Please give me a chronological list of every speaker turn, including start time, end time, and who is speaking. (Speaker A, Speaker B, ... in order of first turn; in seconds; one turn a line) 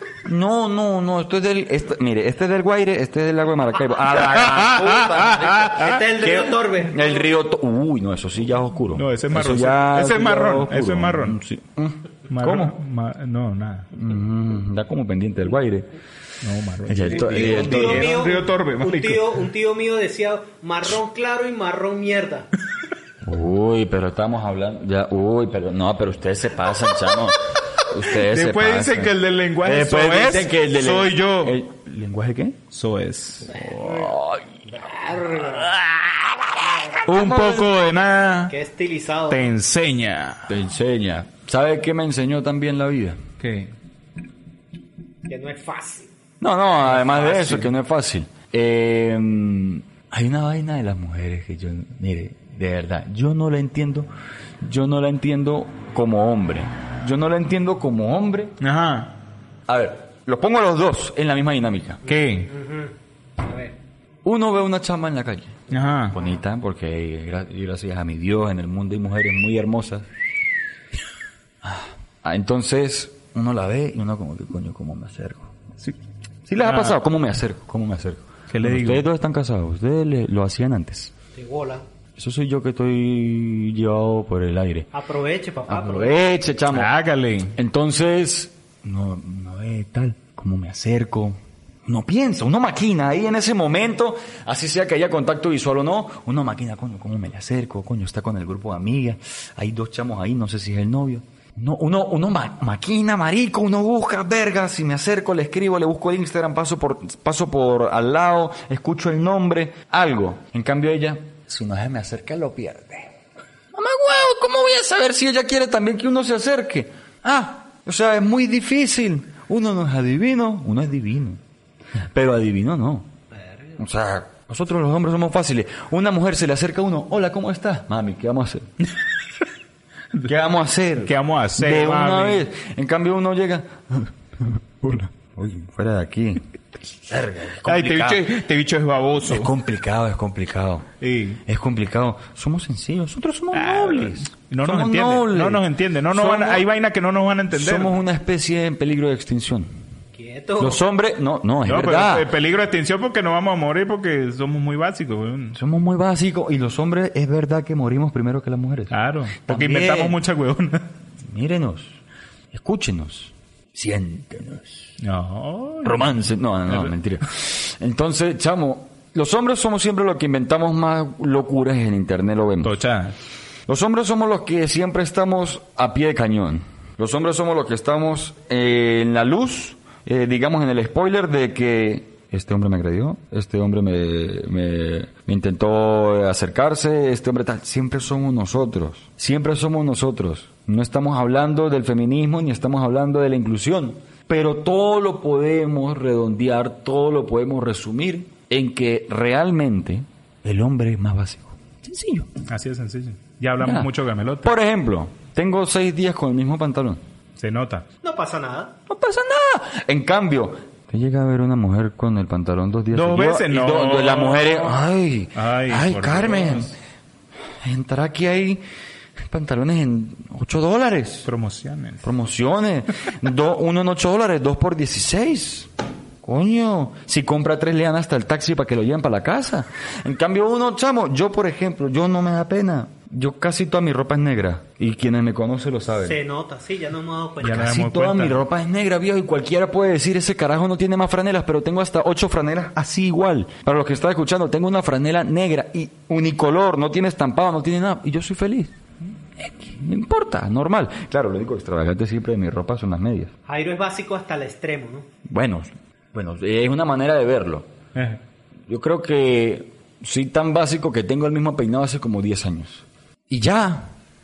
Speaker A: 0.2-5.6
Speaker B: 4.1-6.3
Speaker C: 5.2-7.3
Speaker A: 6.2-12.8
Speaker B: 8.9-11.4
Speaker B: 12.3-13.9
Speaker A: 13.9-15.9
Speaker B: 16.4-19.4
Speaker A: 16.9-18.1
Speaker C: 17.1-22.5
Speaker A: 23.2-32.6
Speaker B: 28.1-31.6
Speaker B: 32.7-33.7
Speaker A: 33.5-34.5
Speaker C: 33.5-34.1
Speaker C: 34.7-35.7
Speaker A: 35.6-37.7
Speaker B: 37.0-38.5
Speaker C: 38.5-39.4
Speaker B: 39.3-40.5
Speaker A: 40.5-43.2
Speaker B: 43.4-43.7
Speaker C: 45.3-46.1
Speaker A: 46.4-54.1
Speaker B: 46.8-47.7
Speaker A: 54.6-58.5
Speaker B: 58.6-59.1
Speaker A: 59.7-62.0
Speaker B: 62.0-62.5
Speaker C: 62.4-63.7
Speaker A: 64.2-70.1
Speaker B: 65.7-66.2
Speaker A: 71.6-75.5
Speaker A: 76.5-81.1
Speaker B: 76.6-77.0
Speaker B: 78.5-79.1
Speaker C: 81.3-81.8
Speaker A: 82.2-84.9
Speaker C: 84.9-86.2
Speaker A: 85.7-86.9
Speaker B: 86.7-87.5
Speaker A: 87.5-113.1
Speaker A: 113.7-121.4
Speaker A: 122.1-123.1
Speaker C: 123.3-123.8
Speaker A: 123.8-128.7
Speaker A: 130.2-138.2
Speaker B: 131.0-132.4
Speaker B: 137.6-139.5
Speaker A: 139.2-140.9
Speaker B: 141.0-141.4
Speaker A: 141.4-146.6
Speaker B: 143.5-147.9
Speaker A: 147.5-149.7
Speaker C: 150.1-150.8
Speaker A: 150.6-152.3
Speaker B: 151.7-155.6
Speaker A: 155.5-160.2
Speaker B: 158.9-160.8
Speaker A: 161.2-162.0
Speaker A: 162.5-164.9
Speaker B: 165.0-166.1
Speaker A: 165.8-172.8
Speaker B: 166.7-166.9
Speaker B: 172.6-173.2
Speaker A: 173.7-202.3
Speaker B: 202.5-204.5
Speaker A: 203.6-203.9
Speaker A: 204.4-207.0
Speaker B: 207.4-207.8
Speaker C: 208.0-208.7
Speaker A: 208.9-216.7
Speaker B: 212.9-214.8
Speaker B: 215.3-216.7
Speaker A: 217.6-218.6
Speaker A: 219.3-221.3
Speaker B: 221.2-222.1
Speaker A: 222.0-225.7
Speaker A: 226.2-236.2
Speaker C: 236.0-237.7
Speaker B: 237.4-238.4
Speaker A: 237.4-248.7
Speaker A: 249.4-253.3
Speaker C: 253.5-255.1
Speaker A: 255.2-257.7
Speaker A: 258.7-263.9